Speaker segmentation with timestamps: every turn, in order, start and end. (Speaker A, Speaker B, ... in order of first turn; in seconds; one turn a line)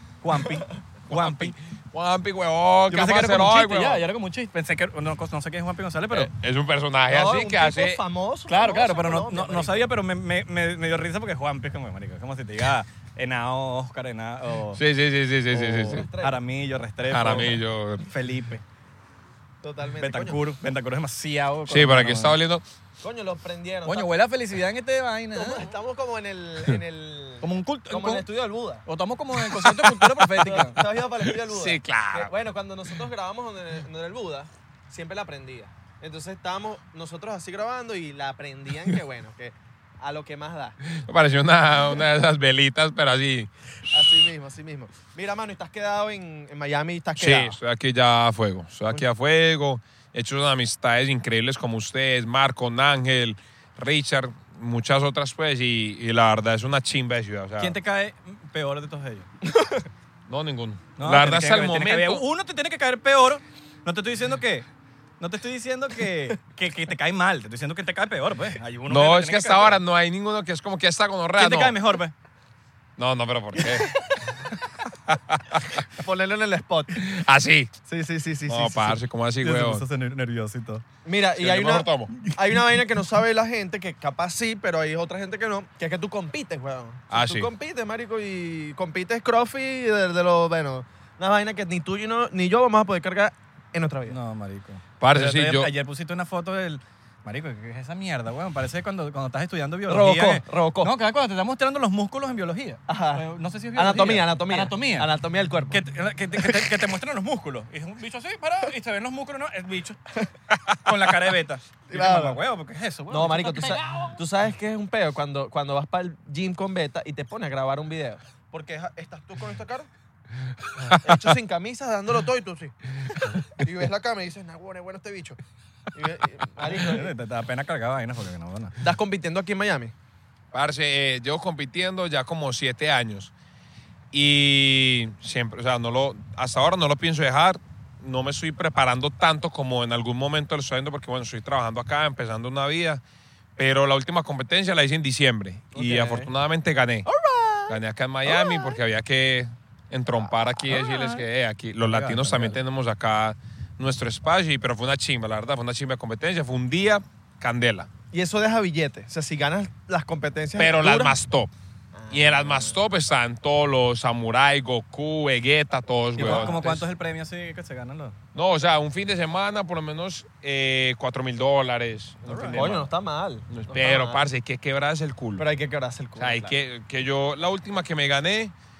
Speaker A: 0.2-1.5
Speaker B: 1.1-4.0
Speaker A: 2.9-6.3
Speaker B: 6.1-8.0
Speaker C: 7.1-9.8
Speaker A: 8.5-14.8
Speaker B: 14.8-16.1
Speaker C: 15.5-16.4
Speaker A: 15.7-18.6
Speaker B: 17.1-18.1
Speaker C: 19.6-20.4
Speaker A: 20.0-22.4
Speaker B: 21.7-22.6
Speaker C: 23.0-24.1
Speaker A: 23.8-25.7
Speaker C: 25.3-28.8
Speaker A: 27.4-28.3
Speaker A: 28.8-30.8
Speaker B: 29.6-30.5
Speaker C: 30.4-40.8
Speaker B: 31.3-32.3
Speaker B: 40.9-43.5
Speaker C: 43.9-47.6
Speaker B: 47.2-57.8
Speaker A: 57.6-59.3
Speaker C: 59.5-59.8
Speaker B: 60.3-62.2
Speaker A: 61.0-64.7
Speaker A: 65.2-69.8
Speaker B: 68.9-71.8
Speaker A: 71.4-72.1
Speaker B: 73.0-74.0
Speaker B: 75.1-75.8
Speaker C: 75.9-77.0
Speaker B: 77.0-77.7
Speaker C: 77.8-79.0
Speaker B: 78.5-79.8
Speaker A: 79.4-80.8
Speaker C: 81.0-94.2
Speaker B: 81.3-82.1
Speaker B: 87.1-87.5
Speaker A: 94.1-105.1
Speaker B: 95.0-95.7
Speaker C: 99.9-100.9
Speaker C: 102.9-105.8
Speaker A: 105.7-110.0
Speaker A: 110.8-114.2
Speaker C: 111.9-112.4
Speaker C: 113.1-119.9
Speaker C: 121.0-122.7
Speaker C: 123.5-125.4
Speaker C: 125.9-127.1
Speaker A: 126.6-128.8
Speaker C: 128.8-129.9
Speaker B: 130.5-133.3
Speaker B: 134.1-143.0
Speaker B: 143.6-147.1
Speaker C: 145.7-146.3
Speaker A: 147.1-147.7
Speaker B: 147.7-157.9
Speaker A: 148.3-148.7
Speaker A: 150.7-151.2
Speaker A: 151.8-152.6
Speaker C: 158.1-161.1
Speaker B: 160.6-161.5
Speaker C: 161.9-162.8
Speaker B: 162.1-166.8
Speaker A: 166.2-168.2
Speaker C: 166.2-166.7
Speaker B: 168.3-172.9
Speaker A: 172.2-172.7
Speaker C: 172.5-174.2
Speaker B: 173.5-175.4
Speaker C: 175.4-176.6
Speaker B: 176.2-178.5